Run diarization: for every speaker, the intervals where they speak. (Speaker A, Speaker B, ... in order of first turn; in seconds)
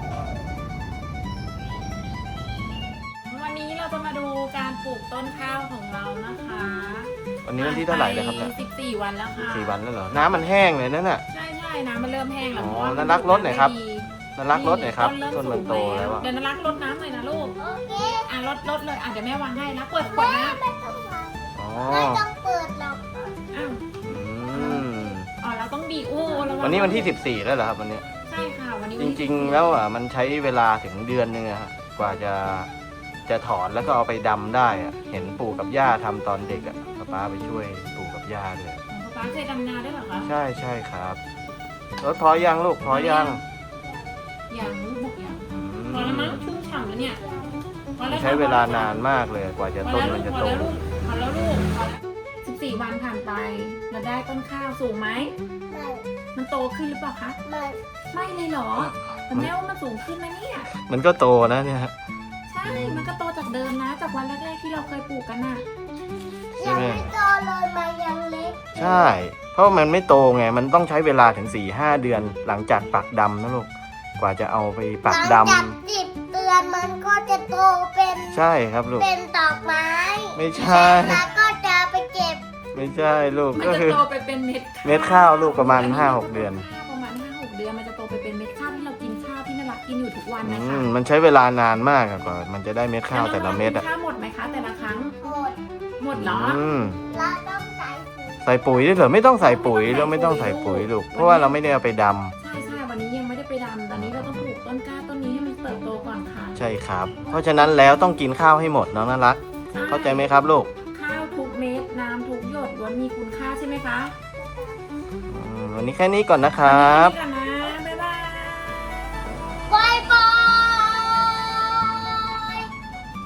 Speaker A: 3.2-9.8, 11.3-17.6, 18.2-20.6, 23.5-23.8, 24.5-24.8, 25.4-27.2, 28.3-29.8, 38.9-40.3, 42.9-43.4, 44.5-47.2, 48.0-48.9, 49.8-55.3, 56.3-57.4, 58.1-60.7, 62.5-65.6, 83.5-90.9, 93.1-95.2, 96.0-96.6, 99.4-101.5, 102.4-106.6, 109.7-110.4, 110.9-114.1, 116.6-118.8
Speaker B: 7.4-8.5, 9.4-11.2, 12.5-13.7, 14.3-16.3, 21.6-22.2, 24.0-25.3, 26.6-28.0, 29.0-32.7, 33.3-38.8, 40.2-41.2, 42.0-43.4, 45.5-46.4, 48.1-50.8, 58.8-59.5, 60.7-61.9, 62.6-63.1, 66.6-67.2, 68.7-75.7, 78.3-79.1, 80.3-81.2, 82.7-84.0, 84.8-86.7, 90.4-93.8, 96.1-97.0, 98.4-102.3, 103.9-104.5, 106.5-110.7, 115.3-117.2
Speaker C: 17.6-18.3, 20.0-23.2, 24.5-25.0, 47.2-47.6, 55.7-56.0, 57.4-57.8, 66.5-69.2, 75.1-78.4, 79.0-82.4, 95.2-95.6, 97.1-98.9, 114.4-114.8, 119.7-122.7